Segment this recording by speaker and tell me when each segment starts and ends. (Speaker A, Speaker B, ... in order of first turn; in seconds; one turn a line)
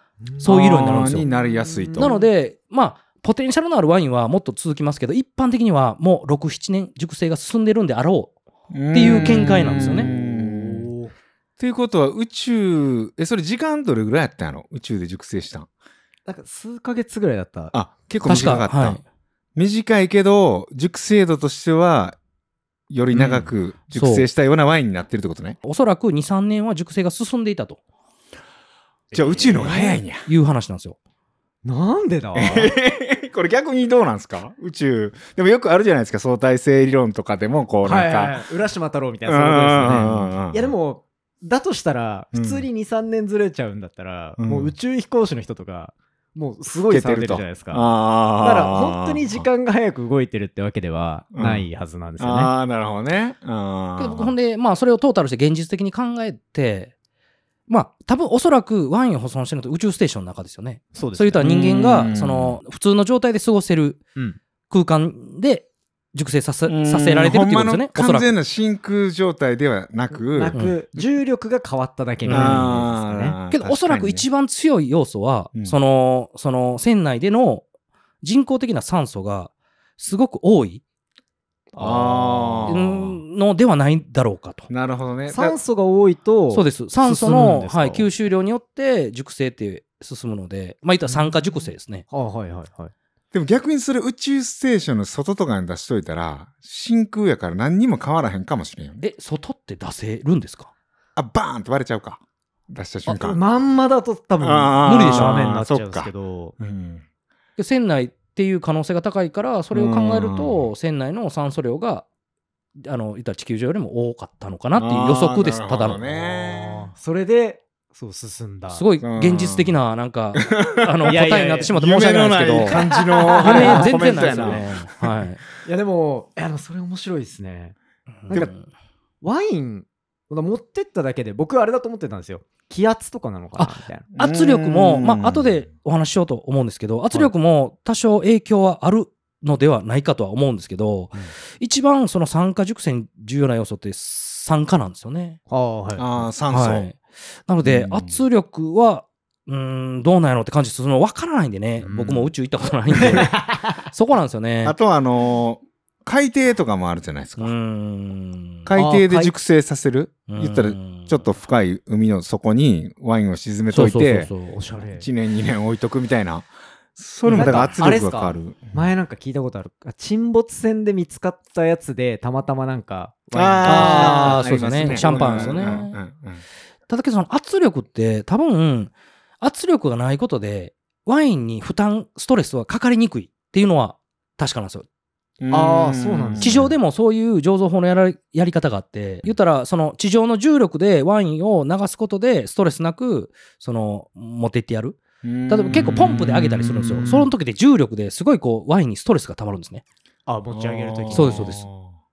Speaker A: 0.2-0.6
Speaker B: 0.4-1.3
Speaker C: 0.5-2.1
Speaker A: 1.1-2.3
Speaker B: 1.9-10.1
Speaker C: 8.7-10.9
Speaker A: 9.0-11.1
Speaker C: 11.6-15.7
Speaker A: 16.3-17.8
Speaker C: 17.7-19.0
Speaker B: 18.2-19.0
Speaker A: 18.3-18.6
Speaker C: 19.6-22.2
Speaker C: 22.9-25.6
Speaker B: 23.1-24.3
Speaker B: 25.6-27.8
Speaker A: 29.1-30.0
Speaker C: 29.1-30.3
Speaker B: 30.2-31.0
Speaker A: 31.6-32.8
Speaker C: 32.4-38.4
Speaker A: 37.8-52.5
Speaker C: 39.3-40.7
Speaker C: 42.3-42.7
Speaker C: 44.4-44.7
Speaker C: 46.9-49.5
Speaker C: 51.3-51.7
Speaker C: 52.2-54.4
Speaker B: 54.0-56.9
Speaker B: 57.7-64.0
Speaker A: 60.9-61.5
Speaker C: 61.4-62.6
Speaker B: 64.7-68.3
Speaker C: 66.7-70.6
Speaker A: 70.1-73.4
Speaker B: 70.5-70.8
Speaker B: 72.2-72.7
Speaker C: 72.3-74.3
Speaker B: 73.5-77.7
Speaker B: 78.2-80.8
Speaker A: 81.7-82.8
Speaker C: 81.8-83.2
Speaker B: 82.7-84.7
Speaker C: 84.7-85.6
Speaker A: 85.3-88.1
Speaker B: 86.5-92.1
Speaker A: 91.1-91.4
Speaker A: 92.1-92.9
Speaker C: 93.3-99.0
Speaker B: 99.0-100.7
Speaker C: 101.2-103.4
Speaker A: 103.1-106.6
Speaker C: 104.4-107.0
Speaker B: 104.8-105.5
Speaker B: 107.6-112.1
Speaker C: 109.7-110.7
Speaker B: 112.8-116.0
Speaker C: 114.8-116.9
Speaker A: 116.0-118.9
Speaker B: 118.7-122.8
Speaker C: 119.0-119.8
Speaker C: 120.3-125.2
Speaker A: 121.1-121.8
Speaker A: 122.7-124.7
Speaker B: 123.4-125.4
Speaker A: 125.6-127.8
Speaker B: 128.2-128.7
Speaker A: 129.2-134.1
Speaker B: 133.6-145.4
Speaker C: 134.2-135.5
Speaker A: 145.5-146.3
Speaker C: 146.0-146.9
Speaker B: 146.5-154.8
Speaker C: 147.6-148.2
Speaker A: 151.8-152.3
Speaker A: 152.9-153.6
Speaker C: 154.6-157.6
Speaker B: 157.4-158.7
Speaker C: 158.7-164.3
Speaker A: 158.8-159.4
Speaker B: 160.3-161.2
Speaker B: 163.7-164.6
Speaker A: 164.5-165.1
Speaker C: 164.9-168.9
Speaker B: 167.2-167.7
Speaker A: 167.3-175.9
Speaker C: 173.3-176.4
Speaker B: 173.6-176.0
Speaker B: 176.9-184.9
Speaker C: 185.4-186.8
Speaker A: 185.5-186.7
Speaker B: 186.4-199.8
Speaker C: 195.2-197.3
Speaker A: 200.3-201.6
Speaker C: 200.5-201.9
Speaker B: 201.1-201.6